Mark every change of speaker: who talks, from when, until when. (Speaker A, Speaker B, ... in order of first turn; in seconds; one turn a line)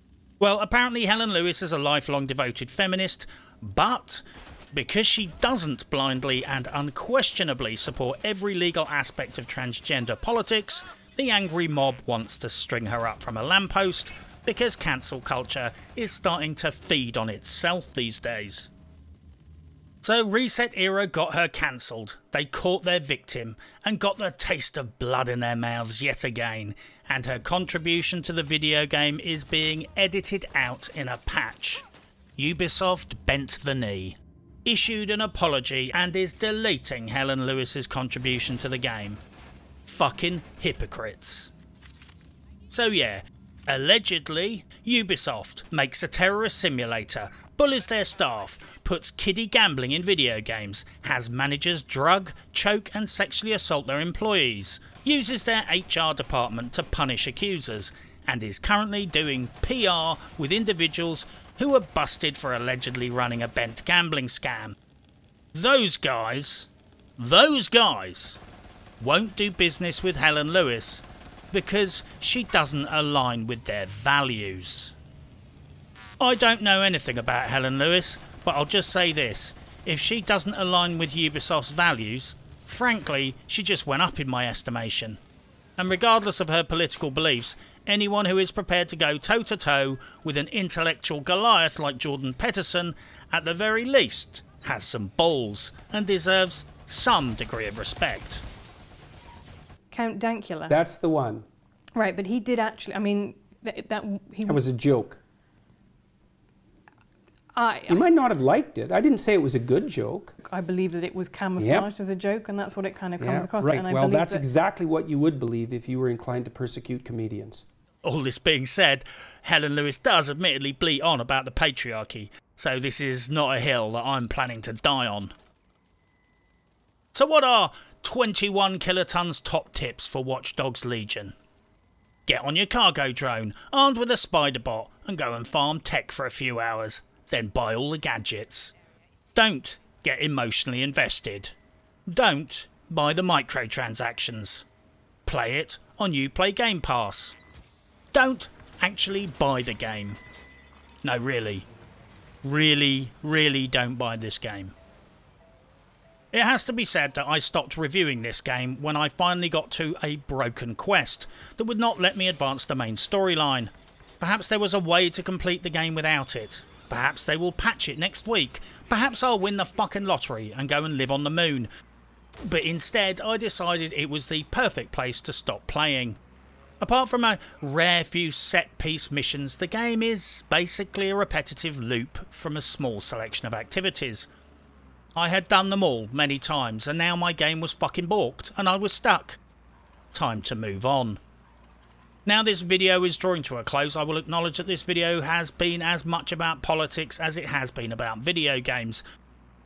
Speaker A: 0.4-18.7
Speaker A: 20.0-31.8
Speaker A: 32.4-39.2
Speaker A: 39.8-41.5
Speaker A: 42.7-64.8
Speaker A: 65.5-68.4
Speaker A: 69.0-74.9
Speaker A: 76.2-85.2
Speaker A: 85.8-98.4
Speaker B: 99.9-100.8
Speaker C: 100.7-101.5
Speaker B: 101.9-104.6
Speaker C: 104.4-105.2
Speaker B: 107.5-108.0
Speaker C: 107.9-110.3
Speaker B: 110.4-114.4
Speaker C: 111.6-111.9
Speaker C: 113.2-117.6
Speaker A: 118.0-125.3
Speaker A: 127.1-131.3
Speaker A: 132.2-138.7
Speaker A: 139.3-141.5
Speaker A: 142.1-144.7
Speaker A: 145.2-147.4
Speaker A: 148.1-150.2
Speaker A: 151.0-151.6
Speaker A: 152.4-154.7
Speaker A: 156.3-171.7
Speaker A: 172.4-176.2
Speaker A: 176.8-184.3
Speaker A: 185.2-189.4
Speaker A: 190.1-191.2
Speaker A: 192.2-199.0